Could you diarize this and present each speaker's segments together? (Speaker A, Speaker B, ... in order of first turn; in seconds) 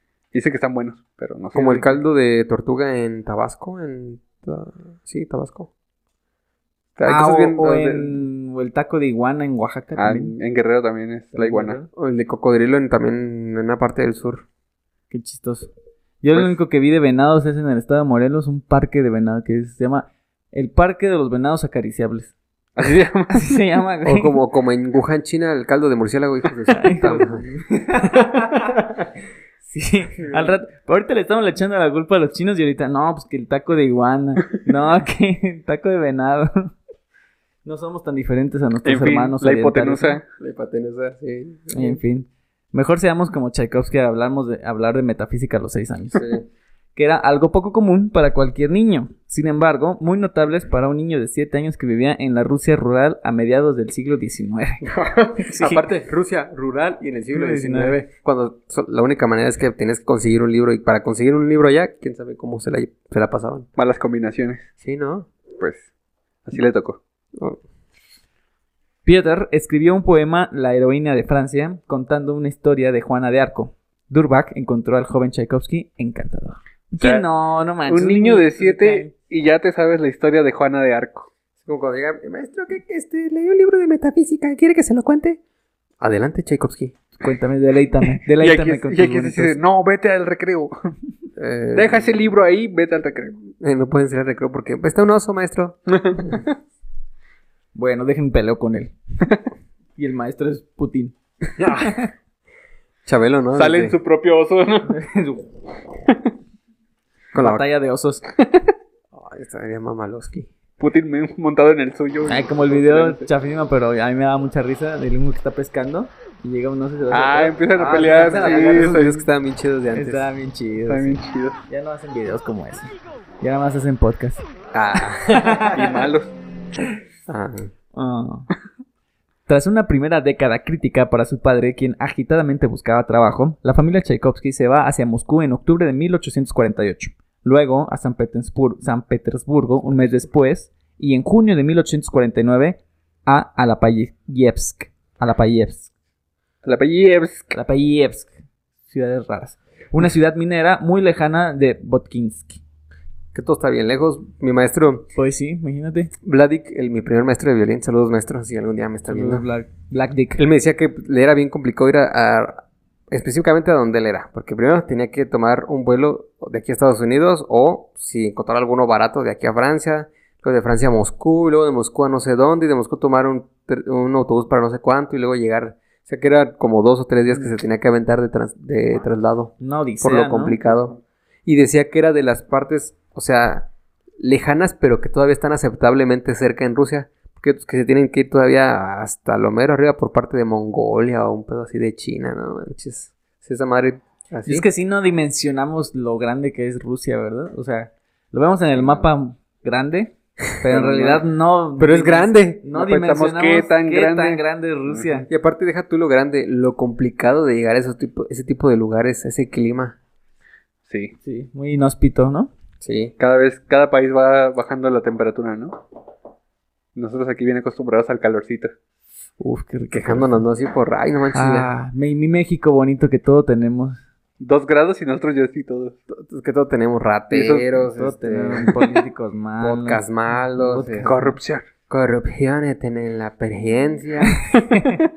Speaker A: 0.3-2.0, 10.0-11.8, 22.8-23.6, 38.9-40.2, 63.8-64.7, 65.6-65.9, 66.5-67.0, 77.0-77.3, 77.9-81.3, 88.3-90.7, 91.7-93.4, 95.9-96.4, 103.5-105.0, 110.8-113.3, 117.1-119.3, 120.9-121.6, 125.7-126.3, 146.6-147.6, 202.7-205.2, 210.9-211.1, 213.2-215.8, 216.9-218.7, 224.4-226.0, 227.3-227.8, 231.0-231.7
Speaker B: 1.5-5.7, 7.0-8.1, 11.9-14.4, 24.1-27.4, 30.3-30.6, 40.4-42.0, 46.1-46.4, 54.8-63.7, 64.8-65.3, 81.6-85.4, 86.0-87.0, 91.4-92.2, 93.5-96.5, 101.6-102.0, 103.1-104.0, 107.3-107.6, 109.1-110.5, 118.0-120.3, 124.7-125.7, 127.3-127.7, 153.3-155.1, 156.2-159.4, 160.4-183.7, 184.2-194.7, 198.8-199.0, 200.8-201.1, 201.8-202.6, 205.3-210.0, 212.8-213.1, 219.9-221.7, 226.1-229.0, 229.6-231.1, 231.9-234.4
Speaker C: 7.0-10.3, 11.3-11.9, 15.1-15.7, 16.2-22.3, 23.3-24.4, 26.7-28.8, 29.7-36.7, 37.6-40.2, 41.7-46.4, 47.0-54.9, 55.4-55.8, 57.3-58.0, 69.0-79.1, 87.2-89.6, 97.8-98.9, 100.0-102.1, 104.9-105.5, 107.3-108.2, 112.3-119.0, 119.9-124.5, 125.3-125.9, 127.9-128.5, 129.5-145.9, 147.5-148.3, 148.9-152.6, 155.2-156.1, 159.1-160.4, 179.6-180.6, 194.4-205.3, 211.2-212.5, 219.4-220.3, 221.3-224.0, 227.9-230.0, 230.6-231.4, 234.5-235.0